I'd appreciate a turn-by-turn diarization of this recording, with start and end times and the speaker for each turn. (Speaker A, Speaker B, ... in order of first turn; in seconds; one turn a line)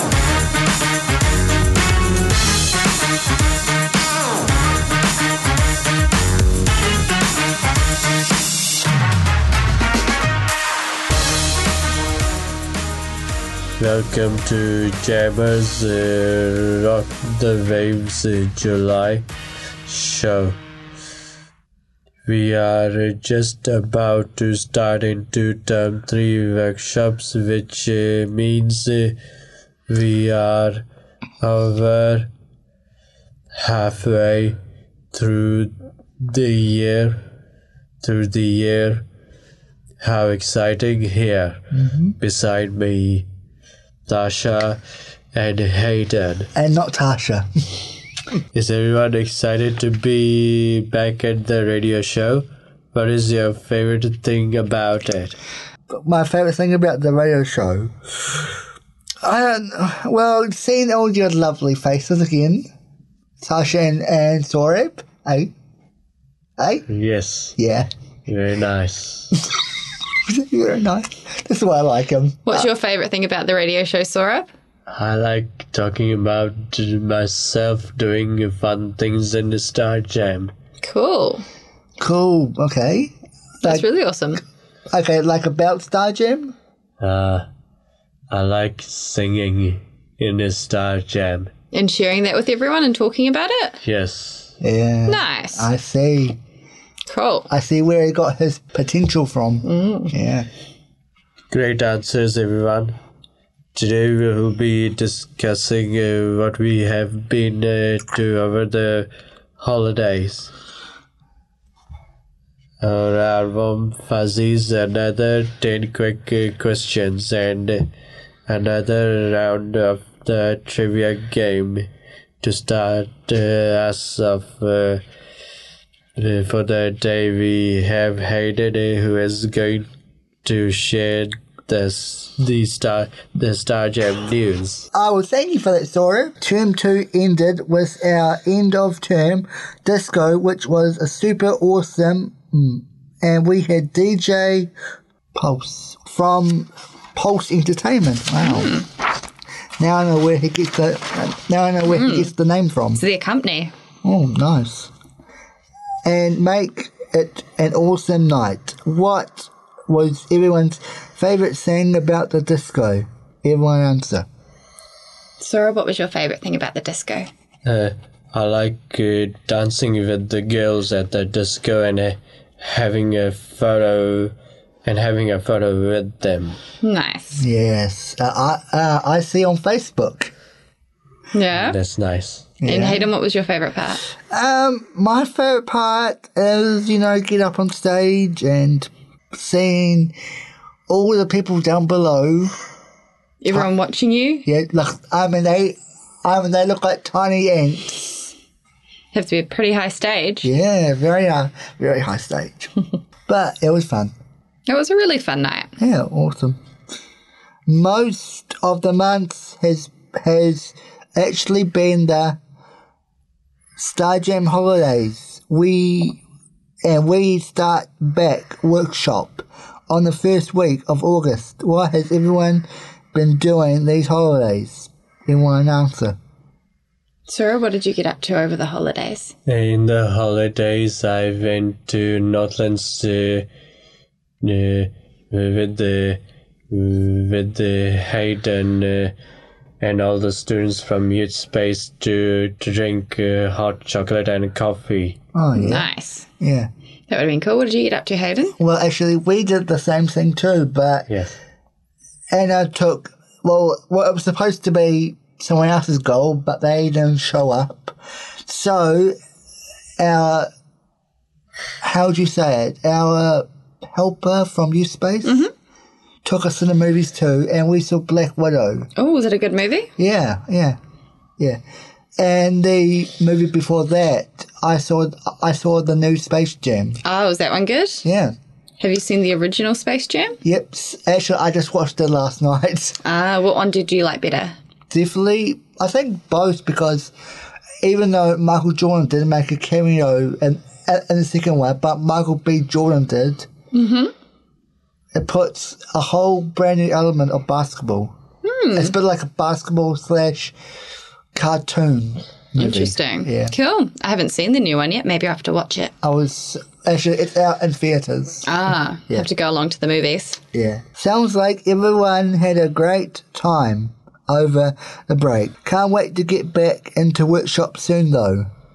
Speaker A: 13.8-19.3
Speaker A: 19.9-20.6
Speaker A: 22.3-29.2
Speaker A: 29.9-30.9
Speaker A: 31.4-32.3
Speaker A: 33.5-34.6
Speaker A: 35.1-37.2
Speaker A: 38.0-39.0
Speaker A: 40.0-41.6
Speaker B: 41.7-42.1
Speaker A: 42.2-43.3
Speaker A: 44.1-44.8
Speaker A: 45.3-46.5
Speaker B: 46.5-47.5
Speaker A: 48.5-55.4
Speaker B: 55.9-58.5
Speaker B: 59.2-62.7
Speaker B: 63.4-65.5
Speaker B: 66.6-66.9
Speaker A: 66.9-67.5
Speaker B: 67.6-67.9
Speaker A: 68.3-69.3
Speaker B: 70.3-72.7
Speaker C: 72.5-74.5
Speaker A: 74.9-80.5
Speaker C: 80.8-81.4
Speaker B: 82.0-83.8
Speaker C: 83.6-84.4
Speaker B: 84.9-86.5
Speaker A: 87.0-87.5
Speaker A: 88.3-91.5
Speaker C: 91.7-93.8
Speaker A: 93.8-94.5
Speaker B: 94.6-96.4
Speaker C: 95.1-95.7
Speaker C: 97.1-97.5
Speaker B: 97.5-100.5
Speaker C: 99.6-100.1
Speaker A: 101.5-103.0
Speaker A: 103.8-110.5
Speaker A: 112.8-117.9
Speaker A: 118.5-121.9
Speaker A: 122.4-125.0
Speaker A: 126.2-129.9
Speaker A: 130.4-134.9
Speaker B: 134.9-144.7
Speaker B: 145.3-148.8
Speaker C: 148.4-148.9
Speaker B: 149.8-153.0
Speaker C: 151.9-152.3
Speaker C: 153.0-153.7
Speaker B: 154.0-154.9
Speaker B: 156.1-164.3
Speaker C: 165.4-167.3
Speaker A: 167.7-174.3
Speaker A: 174.8-176.6
Speaker C: 176.8-177.4
Speaker B: 177.4-180.3
Speaker C: 181.3-181.8
Speaker A: 181.5-182.5
Speaker B: 182.6-183.1
Speaker C: 182.7-184.0
Speaker B: 184.3-190.2
Speaker B: 190.9-192.6
Speaker C: 193.4-194.5
Speaker B: 194.4-198.3
Speaker C: 199.1-200.5
Speaker B: 200.4-202.7
Speaker B: 203.3-204.1
Speaker C: 204.7-205.7
Speaker B: 205.8-206.6
Speaker B: 207.7-212.4
Speaker B: 213.8-216.2
Speaker B: 216.8-226.2
Speaker C: 227.3-229.3
Speaker A: 229.5-233.5
Speaker A: 234.4-236.2
Speaker A: 236.7-239.1
Speaker A: 239.8-245.2
Speaker B: 245.3-245.9
Speaker C: 245.6-246.3
Speaker B: 246.4-246.7
Speaker C: 247.1-248.6
Speaker B: 248.6-251.1
Speaker B: 252.3-259.2
Speaker B: 260.0-260.5
Speaker B: 261.8-265.5
Speaker C: 265.2-265.5
Speaker B: 266.2-268.9
Speaker C: 269.0-269.9
Speaker B: 270.0-270.8
Speaker B: 272.2-277.0
Speaker C: 277.0-278.1
Speaker B: 278.0-278.4
Speaker C: 278.8-280.4
Speaker B: 280.4-283.0
Speaker C: 283.0-284.6
Speaker B: 284.9-287.1
Speaker B: 287.8-293.5
Speaker C: 293.7-294.1
Speaker B: 295.1-298.1
Speaker C: 298.4-298.9
Speaker B: 298.7-300.6
Speaker B: 301.4-303.5
Speaker C: 302.6-305.9
Speaker B: 306.0-308.6
Speaker C: 308.4-310.4
Speaker B: 310.5-318.5